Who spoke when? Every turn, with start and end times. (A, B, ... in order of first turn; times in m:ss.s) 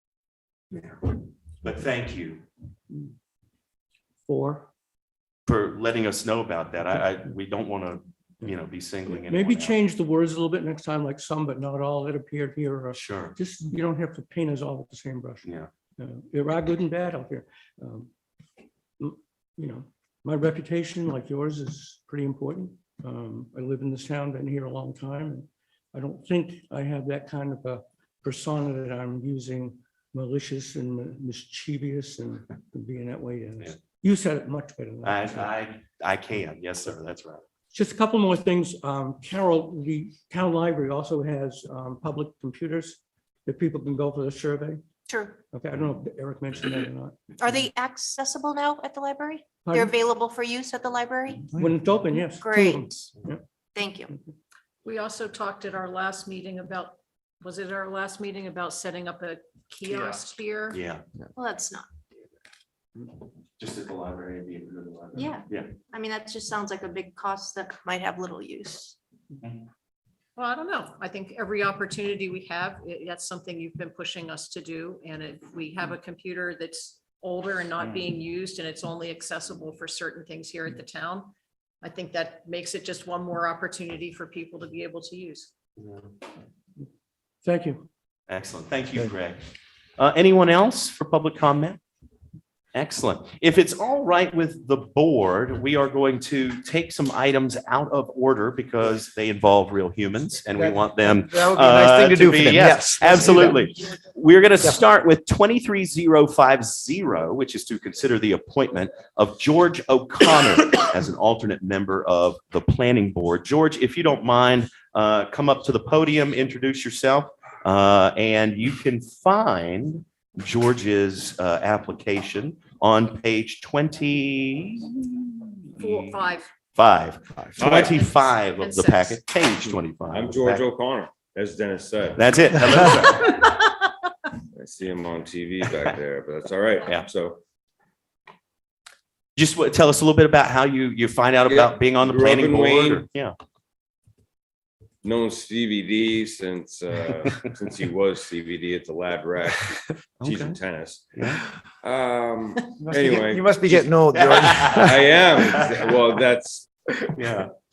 0:00.7-0:02.4 A
0:04.2-0:04.7 B
0:05.4-0:09.8 A
0:09.2-0:18.1 B
0:12.9-0:13.4 A
0:15.4-0:15.7 A
0:19.0-0:35.5 B
0:35.0-0:37.4 A
0:37.7-0:44.8 B
0:45.1-0:45.4 C
0:45.5-0:47.2 B
0:47.4-0:51.5 C
0:49.6-0:49.9 B
0:51.5-0:53.4 B
0:52.4-0:53.1 C
0:53.7-0:54.1 C
0:54.8-1:00.8 D
1:00.7-1:01.0 A
1:01.3-1:01.9 C
1:03.6-1:05.8 A
1:05.1-1:09.0 C
1:09.4-1:09.7 A
1:10.4-1:25.5 D
1:17.8-1:18.1 A
1:25.8-1:26.1 A
1:27.4-1:27.8 B
1:28.3-1:29.4 A
1:30.0-1:31.8 A
1:32.7-2:06.2 A
1:40.6-1:43.6 E
2:05.8-2:06.5 D
2:06.7-2:10.6 A
2:07.6-2:08.0 F
2:07.6-2:09.2 D
2:09.6-2:13.1 F
2:12.2-2:13.4 A
2:14.5-2:17.4 F
2:15.6-2:16.0 A
2:19.4-2:23.3 A
2:21.4-2:23.0 F
2:25.0-2:31.3 F
2:30.2-2:30.6 A
2:31.1-2:31.4 A
2:31.8-2:33.8 F
2:32.8-2:35.0 E
2:34.1-2:36.0 A
2:34.7-2:36.7 F
2:37.2-2:37.5 A